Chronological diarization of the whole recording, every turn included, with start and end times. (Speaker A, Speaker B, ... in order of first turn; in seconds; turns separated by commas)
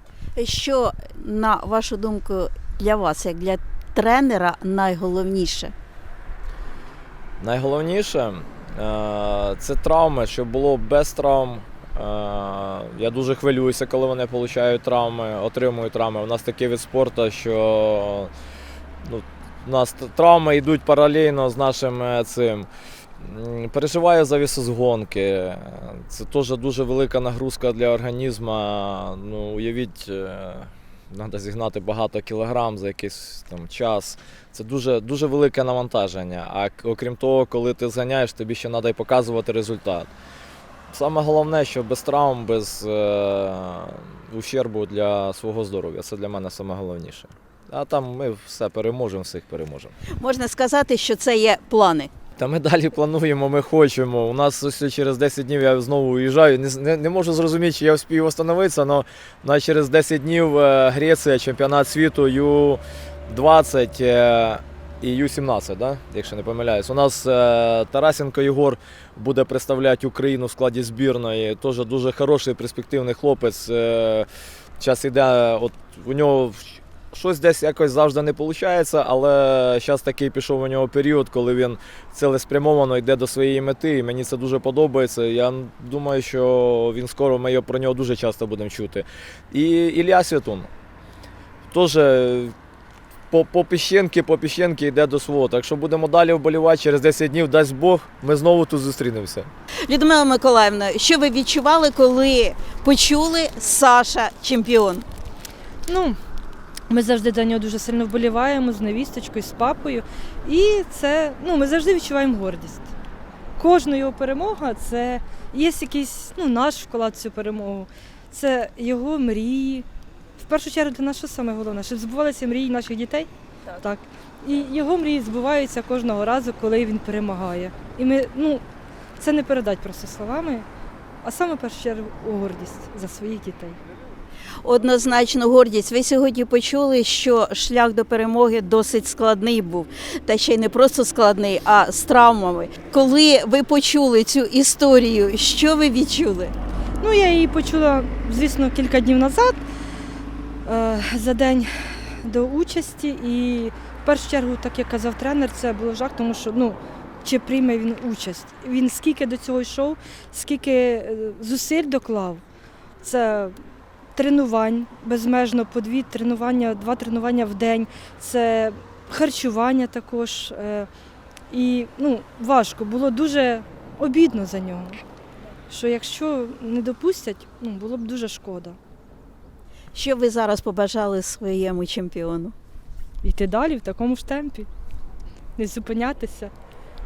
Speaker A: 0.4-5.7, Speaker B: 7.4-18.3, Speaker B: 19.0-22.7, Speaker B: 23.2-40.1, Speaker B: 40.9-49.9, Speaker A: 50.2-52.1, Speaker B: 52.4-74.3, Speaker B: 74.8-90.7, Speaker B: 91.7-92.5, Speaker B: 93.3-99.5, Speaker A: 99.9-105.1, Speaker C: 105.9-106.2, Speaker C: 106.9-112.9, Speaker C: 113.6-119.9, Speaker C: 120.4-128.6, Speaker C: 129.2-130.7, Speaker C: 131.2-133.8, Speaker A: 134.6-146.5, Speaker C: 147.0-149.6, Speaker C: 150.7-151.7, Speaker C: 152.2-162.4, Speaker C: 163.0-163.6, Speaker C: 164.2-170.9, Speaker C: 171.5-175.0, Speaker C: 175.7-178.8, Speaker A: 179.9-182.5, Speaker C: 183.2-184.7, Speaker C: 185.6-186.5